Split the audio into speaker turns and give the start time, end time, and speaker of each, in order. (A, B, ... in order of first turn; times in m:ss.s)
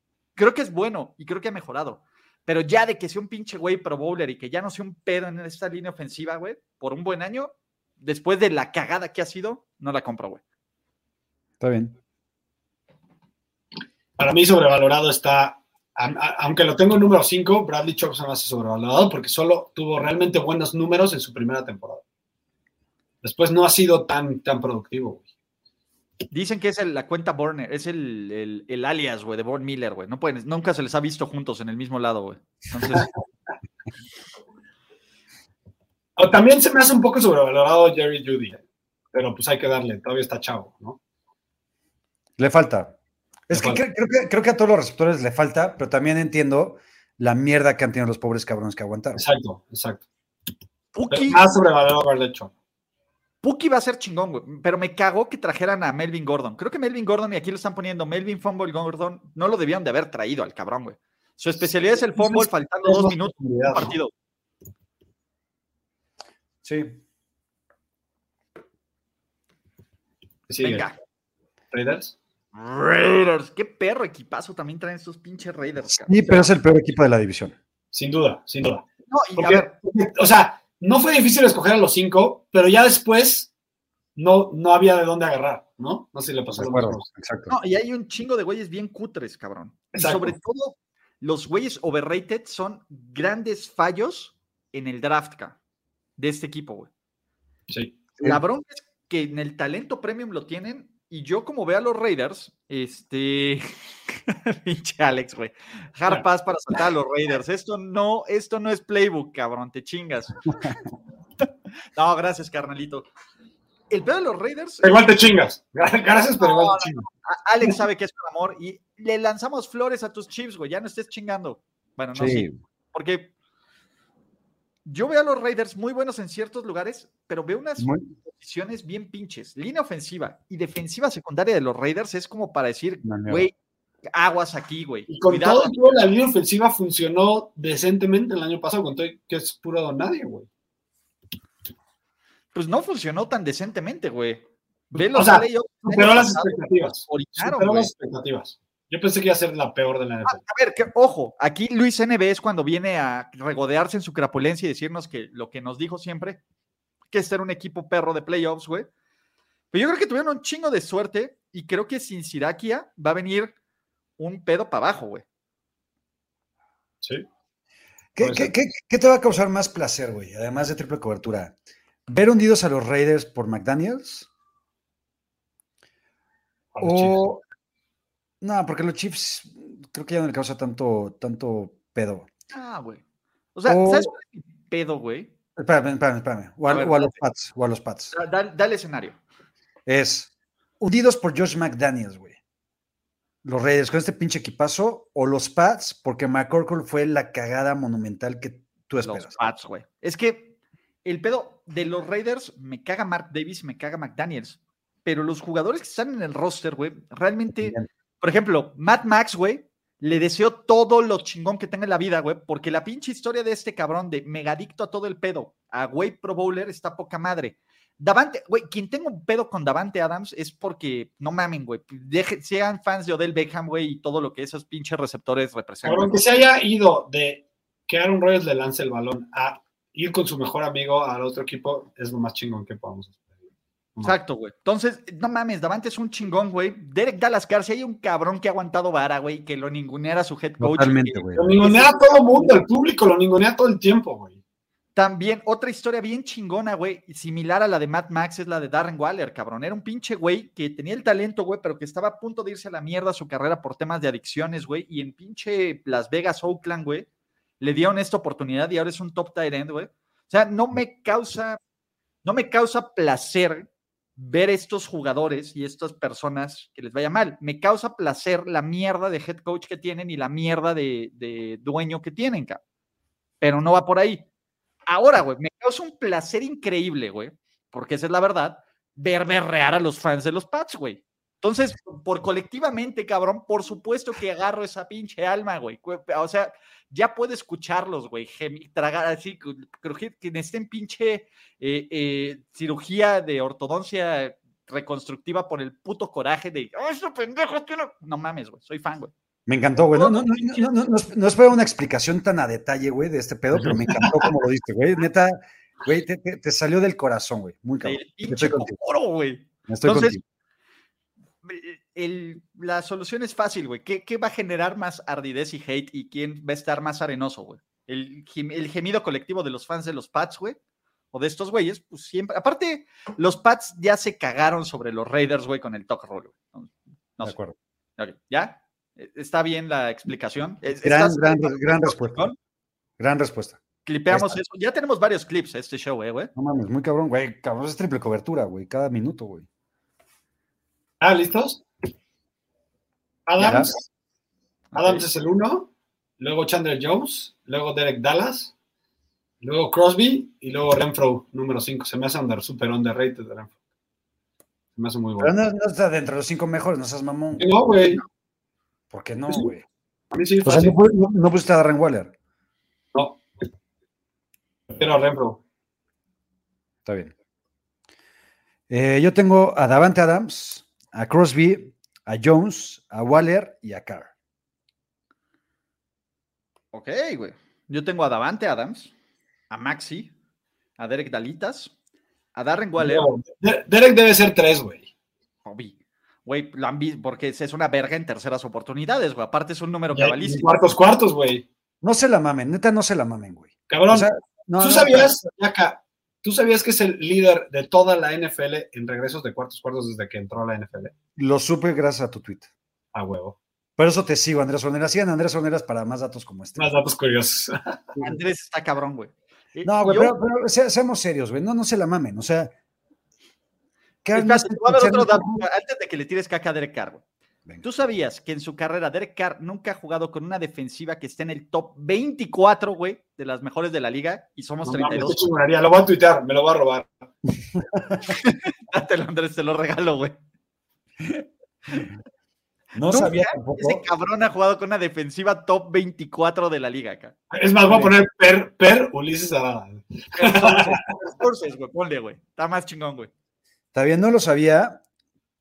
0:00.4-0:10.4 A
0:11.6-0:12.0 B
0:14.2-0:22.0 C
0:23.2-0:25.2 C
0:26.3-0:33.1 A
0:36.2-0:38.6 C
0:39.1-0:41.0 C
0:42.4-0:43.0 B
0:43.5-0:49.2 B
0:43.5-0:43.8 C
0:49.2-0:50.0 C
0:50.9-0:51.4 A
0:51.1-0:52.5 C
0:53.4-1:04.1 A
1:02.1-1:04.0 C
1:06.6-1:07.0 B
1:10.5-1:10.9 C
1:10.6-1:11.0 A
1:11.7-1:12.2 C
1:12.5-1:16.5 A
1:15.9-1:17.6 B
1:17.9-1:18.8 C
1:19.1-1:19.7 A
1:19.4-1:23.5 C
1:24.2-1:27.1 C
1:26.6-1:27.6 B
1:27.5-1:35.6 A
1:29.9-1:30.4 C
1:36.2-1:36.9 A
1:37.7-1:38.4 C
1:38.2-1:43.7 A
1:44.3-1:50.4 A
1:52.0-1:53.1 A
1:53.9-1:54.9 A
1:54.8-1:57.1 C
1:56.4-2:03.3 A
2:02.2-2:02.6 B
2:04.9-2:13.5 A
2:07.8-2:08.1 B
2:13.0-2:13.5 B
2:14.1-2:15.7 A
2:15.1-2:20.5 C
2:22.5-2:27.9 A
2:25.0-2:30.4 C
2:30.3-2:36.4 A
2:37.1-2:38.9 A
2:39.7-2:43.5 A
2:44.2-2:45.2 A
2:48.2-2:51.5 B
2:48.2-2:48.5 C
2:52.1-2:54.3 B
2:56.8-2:57.2 C
2:56.8-2:57.4 B
2:58.4-3:02.3 B
3:02.5-3:03.0 A
3:03.6-3:05.3 A
3:03.7-3:04.1 B
3:05.6-3:08.2 B
3:06.7-3:07.2 A
3:08.1-3:09.2 A
3:09.9-3:12.4 B
3:13.4-3:19.5 B
3:19.0-3:20.5 A
3:21.0-3:46.4 A
3:27.6-3:27.9 B
3:45.8-3:53.2 C
3:54.0-4:02.5 A
4:00.6-4:01.6 B
4:01.4-4:04.4 C
4:05.0-4:17.1 A
4:17.6-4:21.6 A
4:22.2-4:32.6 A
4:33.4-4:34.2 A
4:34.9-4:59.1 A
4:59.5-5:08.8 B
4:59.9-5:00.6 A
5:03.6-5:04.1 C
5:07.8-5:10.2 A
5:09.7-5:10.2 B
5:11.4-5:20.6 A
5:21.1-5:27.4 A
5:27.2-5:27.6 B
5:28.0-5:32.4 A
5:30.8-5:32.3 B
5:33.0-5:34.4 B
5:33.9-5:36.3 A
5:36.4-5:39.5 B
5:41.0-5:41.6 C
5:43.3-5:43.8 C
5:43.4-5:43.7 B
5:44.7-5:45.0 A
5:44.8-5:48.5 C
5:49.4-5:53.5 C
5:54.8-5:55.3 C
5:55.2-5:57.5 B
5:57.4-5:58.0 C
5:58.9-5:59.6 B
6:00.1-6:00.8 C
6:00.4-6:02.1 B
6:02.9-6:03.2 C
6:04.7-6:05.4 C
6:06.8-6:07.1 B
6:08.7-6:14.1 B
6:16.7-6:18.9 A
6:19.5-6:20.1 A
6:20.8-6:21.7 A
6:22.4-6:23.1 A
6:22.8-6:24.9 C
6:25.4-6:30.6 A
6:29.9-6:31.5 C
6:31.8-6:35.2 B
6:33.7-6:40.9 C
6:41.2-6:42.5 B
6:42.9-6:43.4 C
6:43.8-6:46.8 B
6:46.6-6:47.8 C
6:48.0-6:50.2 A
6:49.6-6:52.6 B
6:54.0-6:55.5 B
6:54.1-6:57.0 A
6:57.6-7:05.2 A
7:04.6-7:07.1 C
7:07.6-7:08.0 B
7:08.1-7:10.2 A
7:12.7-7:13.9 B
7:12.9-7:17.1 A
7:17.3-7:20.8 C
7:17.7-7:17.9 B
7:20.2-7:23.1 A
7:23.7-7:24.8 B